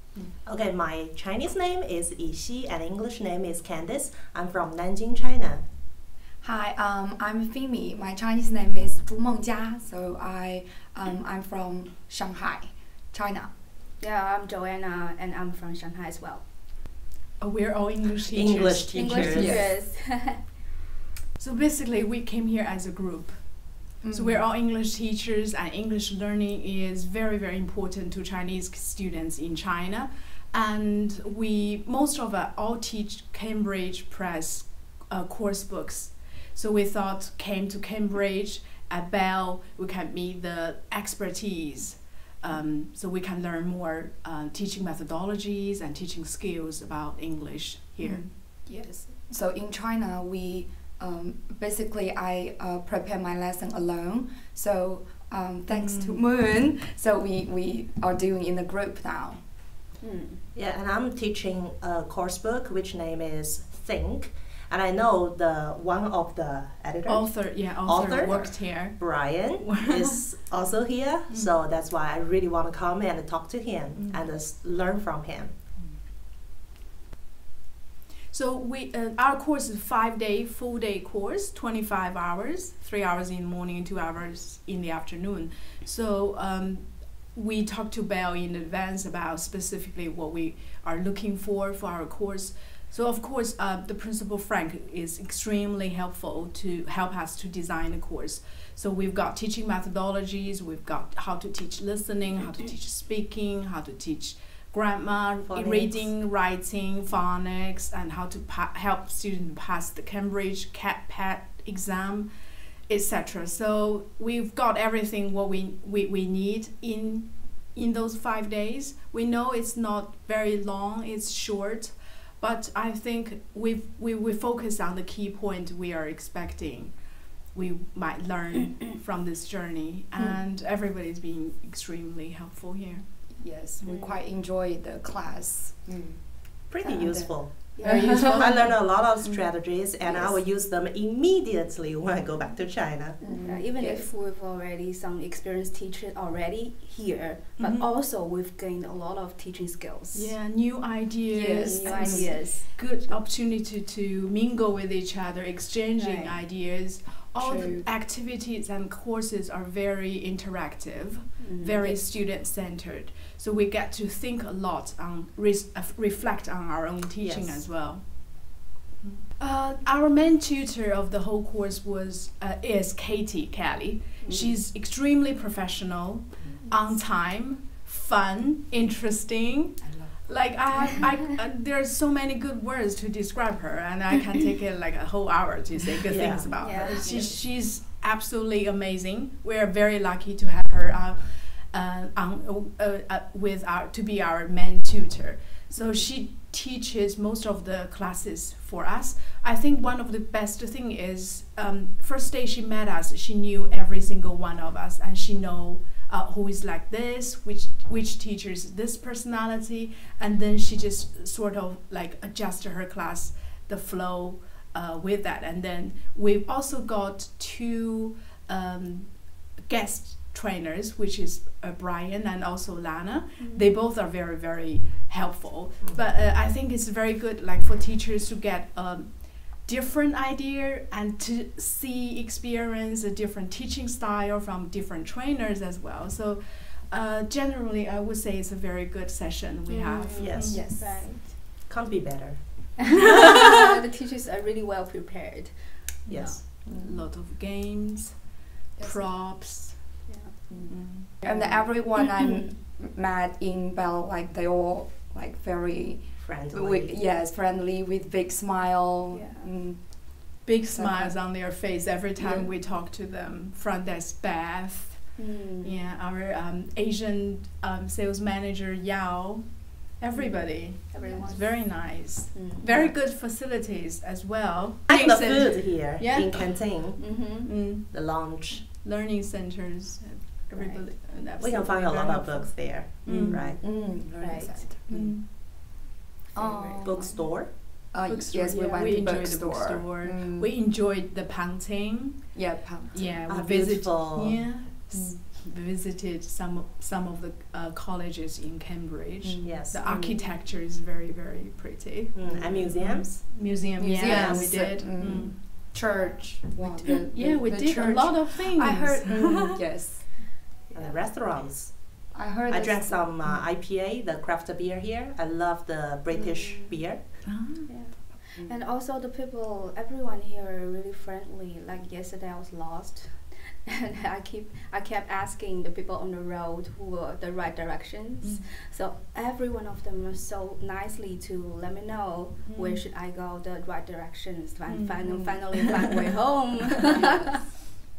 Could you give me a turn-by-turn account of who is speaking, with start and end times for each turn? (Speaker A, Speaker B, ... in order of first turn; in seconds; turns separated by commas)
Speaker A: 0.4-5.7, Speaker B: 6.4-13.5, Speaker C: 14.0-16.5, Speaker D: 17.4-19.6, Speaker A: 18.3-19.7, Speaker C: 18.9-20.4, Speaker B: 19.2-19.8, Speaker D: 21.4-48.9, Speaker B: 24.0-24.4, Speaker B: 48.0-59.5, Speaker D: 55.7-56.2, Speaker C: 60.0-60.4, Speaker A: 60.5-75.6, Speaker D: 67.1-70.2, Speaker D: 71.3-71.6, Speaker D: 74.0-74.2, Speaker D: 78.3-133.1, Speaker A: 105.5-106.2, Speaker B: 133.3-138.5, Speaker C: 133.8-134.2, Speaker A: 136.7-143.2, Speaker C: 137.8-138.2, Speaker D: 137.8-138.7, Speaker B: 139.2-140.3, Speaker C: 140.1-140.4, Speaker B: 143.2-144.1, Speaker C: 143.3-150.4, Speaker D: 147.6-147.9, Speaker D: 150.1-240.7, Speaker B: 151.3-152.5, Speaker C: 151.5-153.2, Speaker C: 156.0-156.4, Speaker B: 157.4-157.9, Speaker C: 161.4-162.0, Speaker A: 167.2-167.7, Speaker C: 174.2-174.6, Speaker B: 176.6-177.0, Speaker B: 179.8-180.4, Speaker A: 186.1-186.8, Speaker C: 186.6-187.4, Speaker C: 195.7-196.1, Speaker C: 223.4-223.7, Speaker A: 225.8-226.1, Speaker C: 239.7-241.4, Speaker A: 240.2-240.7, Speaker B: 240.5-241.1, Speaker A: 241.4-243.1, Speaker C: 242.9-246.4, Speaker A: 246.1-246.4, Speaker D: 246.1-250.1, Speaker B: 246.7-247.1, Speaker B: 248.8-249.1, Speaker C: 250.1-252.5, Speaker B: 250.5-261.6, Speaker D: 250.7-251.1, Speaker A: 256.2-257.0, Speaker C: 259.1-259.5, Speaker D: 260.4-276.9, Speaker B: 262.2-262.5, Speaker C: 265.2-265.9, Speaker C: 270.1-272.9, Speaker B: 271.0-271.3, Speaker A: 274.9-277.2, Speaker C: 277.0-277.6, Speaker D: 277.4-283.6, Speaker A: 277.7-278.6, Speaker C: 280.6-281.1, Speaker A: 281.4-283.6, Speaker B: 283.1-285.2, Speaker C: 284.0-284.7, Speaker D: 284.9-285.3, Speaker C: 286.3-287.3, Speaker B: 286.3-287.4, Speaker A: 286.8-287.5, Speaker B: 287.9-290.5, Speaker D: 288.1-305.4, Speaker B: 292.3-293.2, Speaker A: 293.3-294.6, Speaker B: 294.9-295.2, Speaker B: 299.2-300.1, Speaker A: 299.4-299.8, Speaker C: 299.9-300.2, Speaker A: 302.1-303.2, Speaker B: 303.8-310.3, Speaker A: 304.0-304.7, Speaker D: 307.0-309.6, Speaker A: 310.7-317.2, Speaker B: 312.1-313.1, Speaker C: 316.1-337.3, Speaker D: 317.3-317.9, Speaker D: 332.5-332.8, Speaker D: 334.7-335.6, Speaker B: 335.1-335.8